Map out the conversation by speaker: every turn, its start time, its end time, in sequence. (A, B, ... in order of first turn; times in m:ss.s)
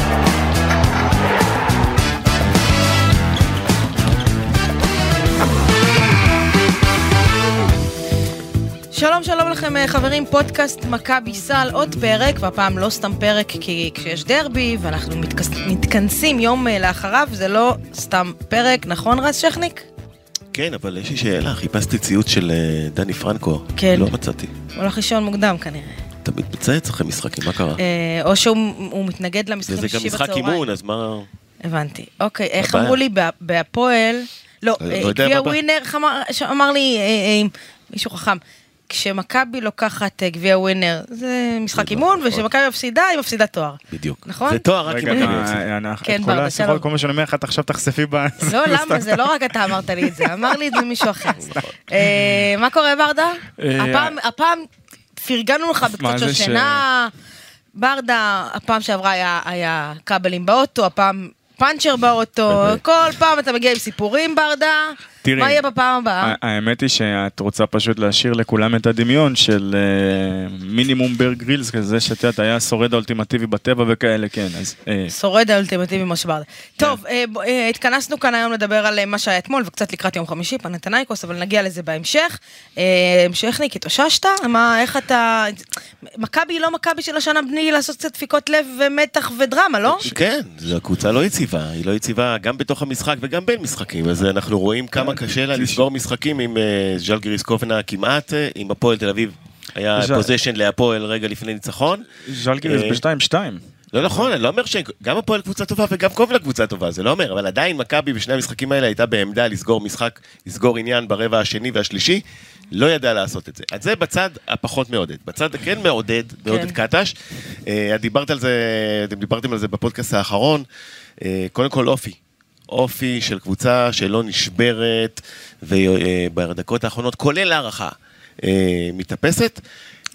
0:08.9-0:19.9 A
0:20.5-0:24.5 B
0:23.8-0:24.1 A
0:24.7-0:26.0 A
0:26.2-0:27.8 B
0:27.8-0:30.7 A
0:29.6-0:31.3 B
0:31.6-0:45.4 A
0:32.6-0:33.0 B
0:34.8-0:35.6 B
0:41.7-0:42.4 B
0:43.9-0:45.6 B
0:44.9-0:49.2 C
0:46.0-0:46.8 A
0:48.5-0:57.1 A
0:50.0-0:50.3 C
0:51.4-0:51.7 B
0:53.6-0:54.2 C
0:56.0-0:56.8 C
0:57.8-1:06.4 A
1:02.5-1:02.8 B
1:05.2-1:05.6 C
1:06.2-1:15.1 C
1:15.1-1:30.1 A
1:30.0-1:42.1 B
1:35.0-1:35.8 C
1:40.0-1:40.3 C
1:42.2-1:44.3 C
1:42.6-1:43.0 B
1:43.9-2:00.7 B
1:56.5-1:56.8 A
2:01.2-2:02.2 B
2:02.7-2:09.6 B